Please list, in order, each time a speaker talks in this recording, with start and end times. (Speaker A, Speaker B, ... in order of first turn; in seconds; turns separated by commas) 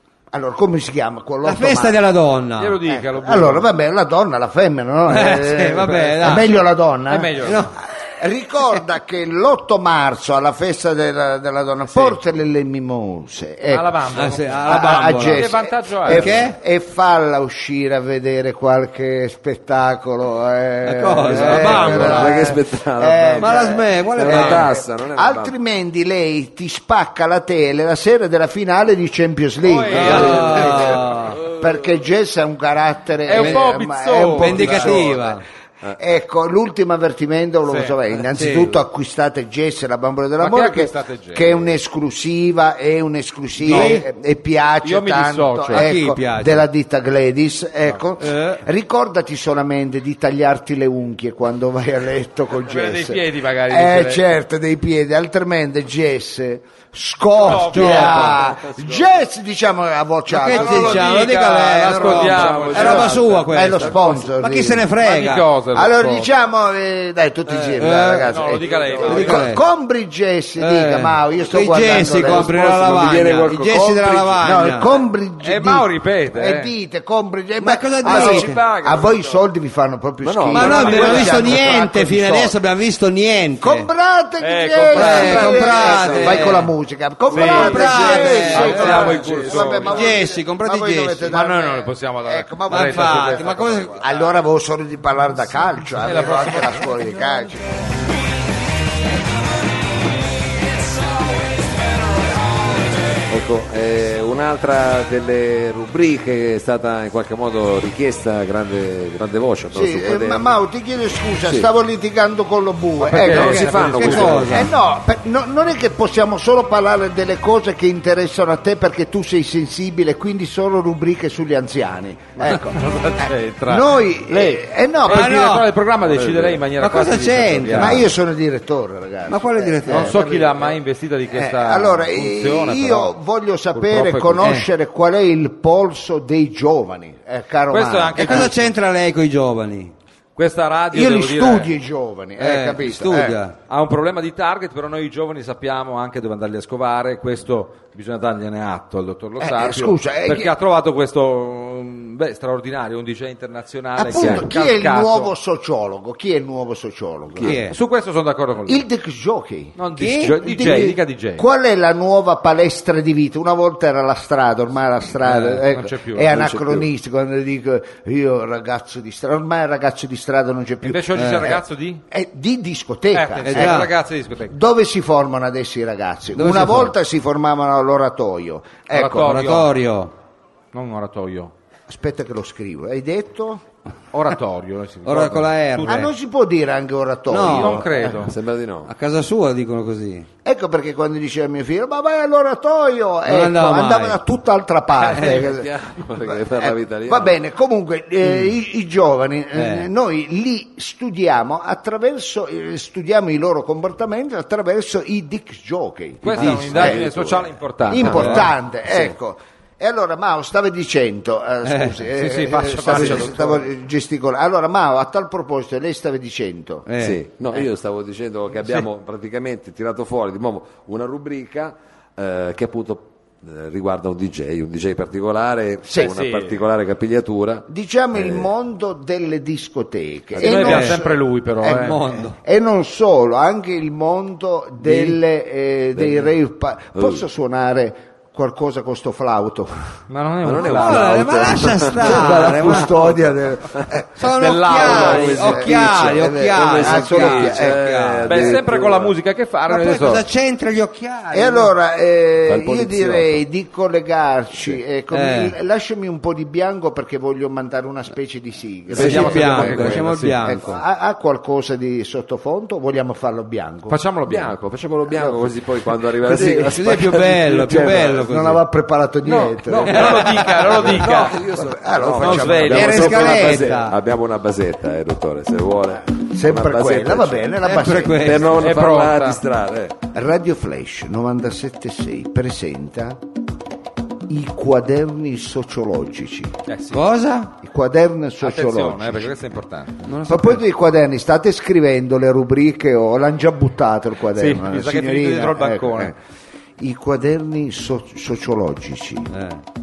Speaker A: 0.3-2.0, Speaker B: 1.4-2.8, Speaker C: 2.6-3.7, Speaker A: 2.8-35.3, Speaker B: 5.1-6.5, Speaker C: 5.9-6.5, Speaker C: 7.1-7.7, Speaker B: 7.4-7.7, Speaker C: 11.9-12.2, Speaker C: 13.7-16.3, Speaker B: 14.1-15.5, Speaker B: 16.0-16.6, Speaker B: 20.8-22.4, Speaker D: 21.2-25.5, Speaker B: 23.4-24.7, Speaker C: 29.6-31.3, Speaker B: 29.9-31.4, Speaker C: 33.2-35.2, Speaker B: 33.4-33.7, Speaker B: 34.3-35.4, Speaker A: 36.0-61.1, Speaker C: 37.6-38.0, Speaker B: 38.3-38.8, Speaker C: 40.4-41.8, Speaker B: 43.6-44.0, Speaker C: 43.6-44.0, Speaker C: 44.8-45.9, Speaker B: 45.7-46.7, Speaker B: 48.2-48.6, Speaker C: 52.6-54.2, Speaker C: 57.4-58.5, Speaker B: 57.5-58.4, Speaker D: 58.4-59.1, Speaker B: 60.3-65.4, Speaker C: 60.5-63.3, Speaker D: 61.8-64.3, Speaker A: 62.6-64.9, Speaker C: 65.0-66.3, Speaker A: 65.7-72.5, Speaker B: 67.5-68.3, Speaker C: 68.2-69.5, Speaker D: 68.5-69.4, Speaker B: 69.0-69.6, Speaker B: 70.6-74.9, Speaker D: 72.0-74.5, Speaker A: 74.4-82.5, Speaker C: 75.4-76.7, Speaker B: 77.6-78.6, Speaker D: 78.0-79.2, Speaker C: 78.1-79.3, Speaker D: 80.2-81.8, Speaker B: 80.5-83.9, Speaker C: 80.5-81.5, Speaker A: 83.6-97.7, Speaker C: 84.4-86.4, Speaker B: 84.9-86.7, Speaker D: 85.2-86.5, Speaker C: 87.3-90.2, Speaker B: 87.3-89.3, Speaker D: 87.3-89.9, Speaker B: 89.9-91.3, Speaker C: 91.3-94.2, Speaker B: 92.7-94.0, Speaker C: 96.0-96.9, Speaker D: 103.3-110.5, Speaker A: 109.7-125.5, Speaker D: 111.4-111.7, Speaker C: 113.0-114.5, Speaker D: 113.1-114.7, Speaker B: 113.9-114.7, Speaker C: 122.4-128.1, Speaker B: 125.0-125.7, Speaker D: 126.0-126.6, Speaker B: 126.8-128.1, Speaker A: 127.8-130.8, Speaker B: 129.3-130.2, Speaker C: 129.9-133.1, Speaker A: 131.3-138.5, Speaker C: 133.7-134.5, Speaker B: 134.4-134.7, Speaker C: 137.7-138.7, Speaker B: 138.2-139.9, Speaker C: 140.3-141.7, Speaker A: 140.9-143.4, Speaker B: 142.4-143.5, Speaker C: 143.7-155.3, Speaker A: 149.4-150.5, Speaker A: 153.9-157.6, Speaker D: 154.1-154.5, Speaker B: 157.4-157.8, Speaker C: 157.5-158.8, Speaker A: 158.7-159.8, Speaker C: 159.8-161.4, Speaker B: 159.9-160.4, Speaker A: 160.4-173.9, Speaker C: 165.2-166.4, Speaker D: 166.3-166.9, Speaker C: 170.8-172.0, Speaker B: 171.1-171.5, Speaker C: 173.1-174.5, Speaker B: 173.4-173.9, Speaker A: 174.5-179.3, Speaker B: 176.3-176.9, Speaker C: 178.9-179.7, Speaker B: 179.2-180.1, Speaker C: 180.7-181.5, Speaker A: 181.9-183.6, Speaker C: 184.1-186.1, Speaker B: 185.0-186.1, Speaker A: 185.8-188.3, Speaker B: 187.3-187.8, Speaker C: 187.4-188.3, Speaker D: 188.2-188.9, Speaker B: 188.8-190.3, Speaker A: 190.4-195.7, Speaker B: 193.2-194.2, Speaker D: 195.0-197.3, Speaker A: 196.3-207.1, Speaker B: 199.5-199.9, Speaker C: 206.2-208.5, Speaker D: 206.3-208.3, Speaker A: 207.9-216.8, Speaker B: 208.1-208.5, Speaker B: 211.6-212.0, Speaker C: 212.2-213.7, Speaker D: 212.9-213.4, Speaker B: 216.8-217.2, Speaker D: 217.0-228.5, Speaker A: 225.9-226.1, Speaker C: 225.9-226.6, Speaker A: 227.7-239.8, Speaker C: 230.4-232.0, Speaker B: 230.5-230.9, Speaker B: 231.6-232.3, Speaker B: 234.8-235.2, Speaker D: 235.9-236.3, Speaker D: 236.9-237.2, Speaker C: 240.1-241.6, Speaker D: 240.4-243.9, Speaker B: 240.6-242.9, Speaker A: 242.0-244.2, Speaker B: 244.2-248.6, Speaker C: 244.4-245.6, Speaker D: 244.7-249.1, Speaker A: 244.7-247.8, Speaker C: 248.3-250.2, Speaker B: 249.7-251.7, Speaker A: 251.3-264.0, Speaker D: 252.4-253.4, Speaker B: 255.1-255.5, Speaker C: 258.9-260.4, Speaker D: 258.9-260.1, Speaker B: 258.9-260.8, Speaker C: 263.9-264.5, Speaker D: 264.2-268.2, Speaker A: 265.1-265.5, Speaker A: 266.3-273.5, Speaker B: 266.3-268.6, Speaker D: 269.2-277.6, Speaker C: 269.7-271.4, Speaker B: 270.0-270.4, Speaker C: 272.2-273.7, Speaker B: 272.7-273.9, Speaker A: 276.3-278.5, Speaker B: 277.6-278.6, Speaker D: 278.1-279.9, Speaker C: 278.6-279.4, Speaker A: 280.1-283.2, Speaker A: 284.3-286.5, Speaker C: 286.7-287.0, Speaker B: 286.9-287.5, Speaker A: 287.6-289.3, Speaker C: 288.4-290.0, Speaker B: 290.0-290.6, Speaker A: 290.3-296.1, Speaker C: 294.3-296.1, Speaker A: 296.8-299.3, Speaker B: 299.3-299.6